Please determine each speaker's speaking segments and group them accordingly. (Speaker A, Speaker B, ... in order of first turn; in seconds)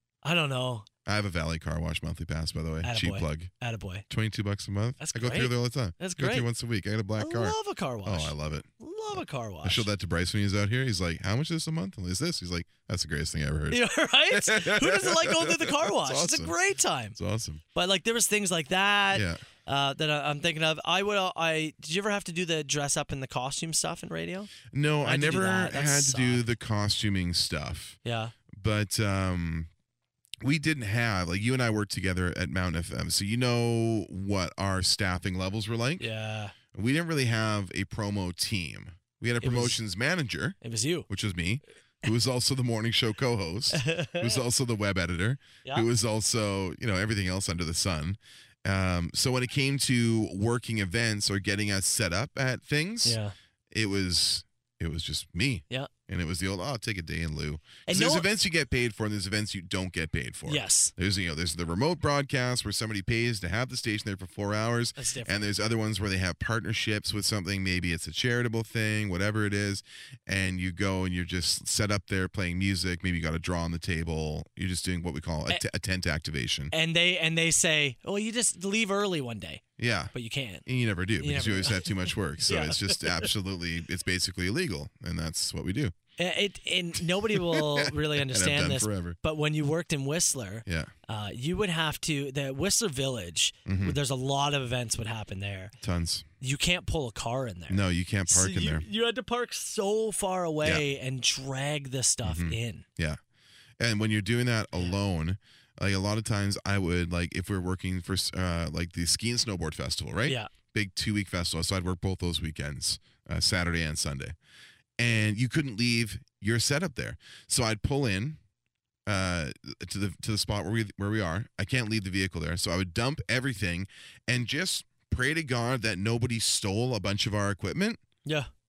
Speaker A: 0.2-0.9, 2.8-4.0, 5.0-6.5, 7.2-9.9, 13.7-17.1, 17.7-24.5, 25.0-26.4, 28.0-28.3, 36.0-36.5, 39.4-39.8, 40.6-41.1, 43.7-44.4, 53.0-53.3, 57.9-58.3, 60.5-60.9, 65.0-65.5, 76.7-80.6, 81.2-83.3, 86.2-95.7, 96.4-102.8
Speaker B: 1.1-3.5, 4.1-16.5, 17.1-17.6, 19.1-19.4, 24.7-28.0, 28.5-29.7, 30.4-36.1, 36.7-40.6, 41.1-53.2, 53.7-76.7, 79.8-80.1, 80.6-85.9, 87.2-89.2, 90.6-90.9, 93.7-94.0, 95.8-96.2, 97.7-98.8, 102.2-103.2, 103.8-114.3, 115.0-118.4, 119.1-128.0